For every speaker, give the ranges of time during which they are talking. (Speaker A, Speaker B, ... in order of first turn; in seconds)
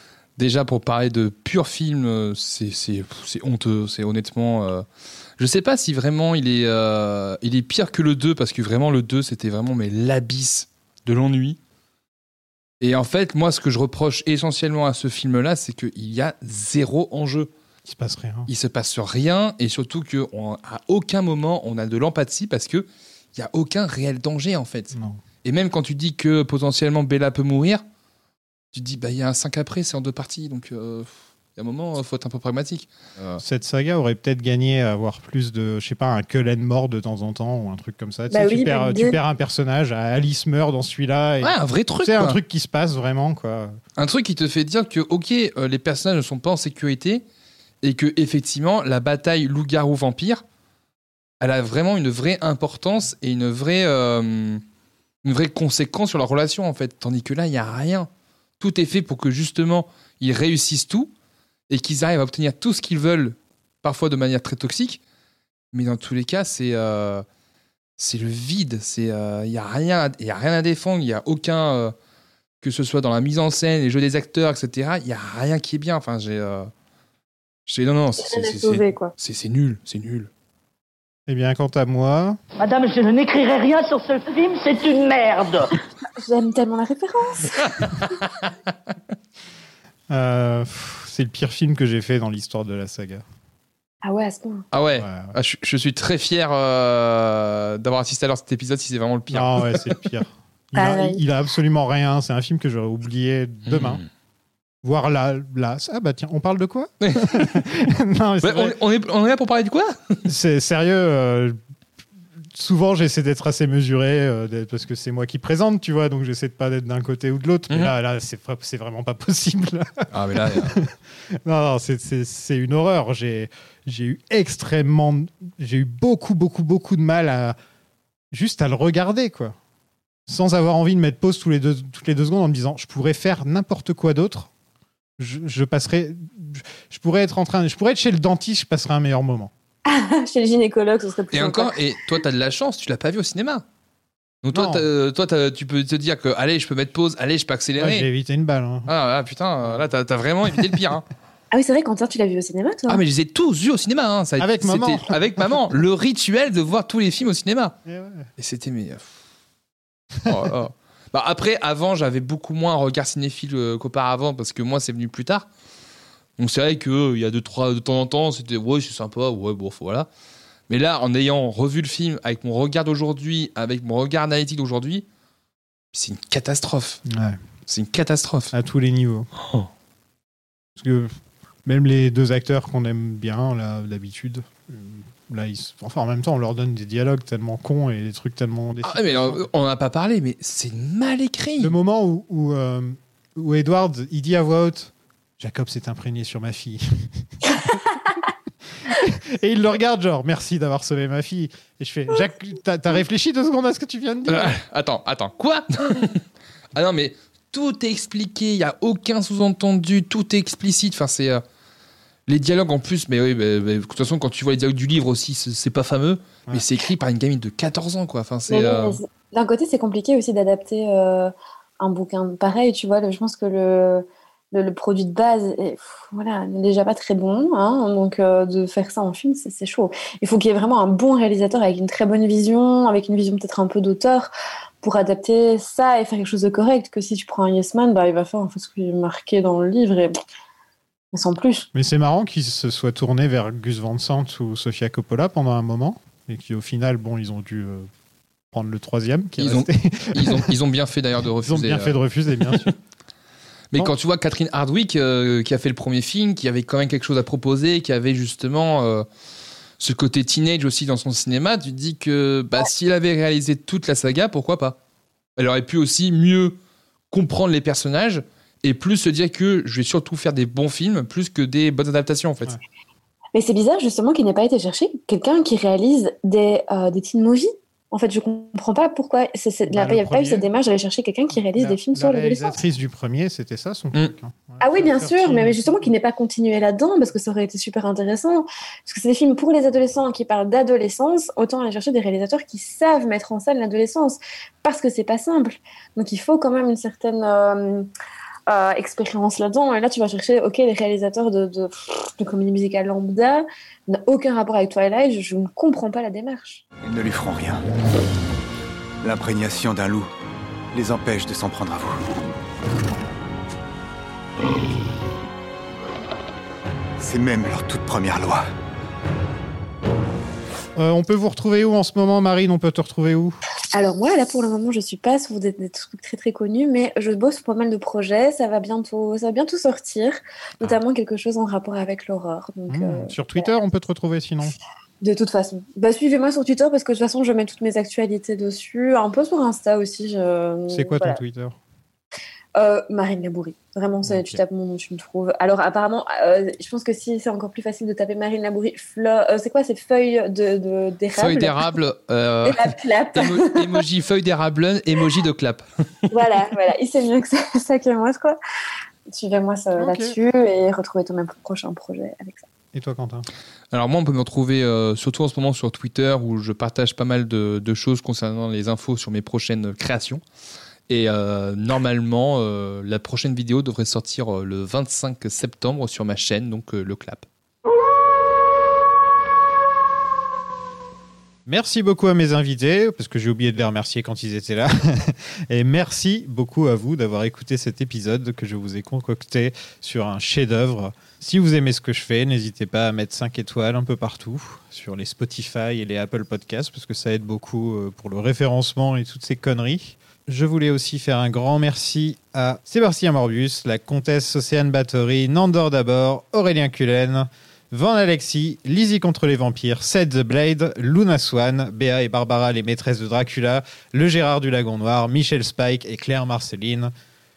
Speaker A: 0.4-4.8, 5.4-11.6, 12.8-17.5, 18.5-27.8, 28.7-33.4, 41.4-42.4, 44.0-47.2, 47.8-50.4, 51.4-54.6, 55.2-58.1, 58.6-61.1, 61.7-65.0, 65.7-67.2, 68.0-71.9, 72.6-76.7, 77.7-80.3, 87.7-88.5, 94.7-100.0, 103.7-104.0, 107.0-107.7, 108.4-110.2, 120.1-120.8, 141.3-143.6, 144.4-148.1, 148.9-151.1, 152.9-157.8, 158.4-159.1, 160.2-165.5, 166.4-170.1, 170.7-175.0, 175.9-177.0, 177.7-178.5, 188.8-191.7, 204.3-206.2, 206.7-211.4, 212.3-219.0, 249.4-252.7, 253.7-259.1, 259.8-264.8, 265.4-266.6, 267.1-272.6, 351.1-355.6, 363.7-370.2, 370.9-377.3
Speaker B: 17.8-18.5, 24.9-25.2, 33.4-43.8, 81.3-82.4, 90.1-93.2, 94.9-95.3, 99.3-104.0, 104.8-108.8, 110.2-111.6, 112.5-127.6, 128.3-129.6, 130.3-134.5, 135.2-139.5, 144.5-144.8, 147.8-148.9, 154.4-155.6, 157.8-158.3, 177.1-177.4, 178.5-179.3, 180.8-181.1, 181.6-189.4, 191.6-197.8, 198.8-204.6, 241.7-247.9, 248.5-250.5, 251.4-252.7, 279.7-280.5, 281.5-285.9, 320.8-323.4, 332.7-334.6, 340.7-341.6, 344.1-344.4, 359.8-360.1, 362.7-363.3, 381.4-416.9
Speaker C: 38.3-39.2, 78.2-79.1, 86.2-87.6, 94.0-94.6, 100.8-101.2, 139.8-141.7, 151.5-153.0, 218.5-240.1, 241.1-241.7, 273.3-282.6, 284.6-297.9, 298.5-306.6, 323.7-333.5, 335.0-341.2, 342.6-351.6, 352.4-353.8, 356.1-358.4, 359.1-362.4
Speaker D: 82.6-85.8
Speaker E: 306.8-307.6, 309.0-310.1, 310.7-312.1, 317.0-318.4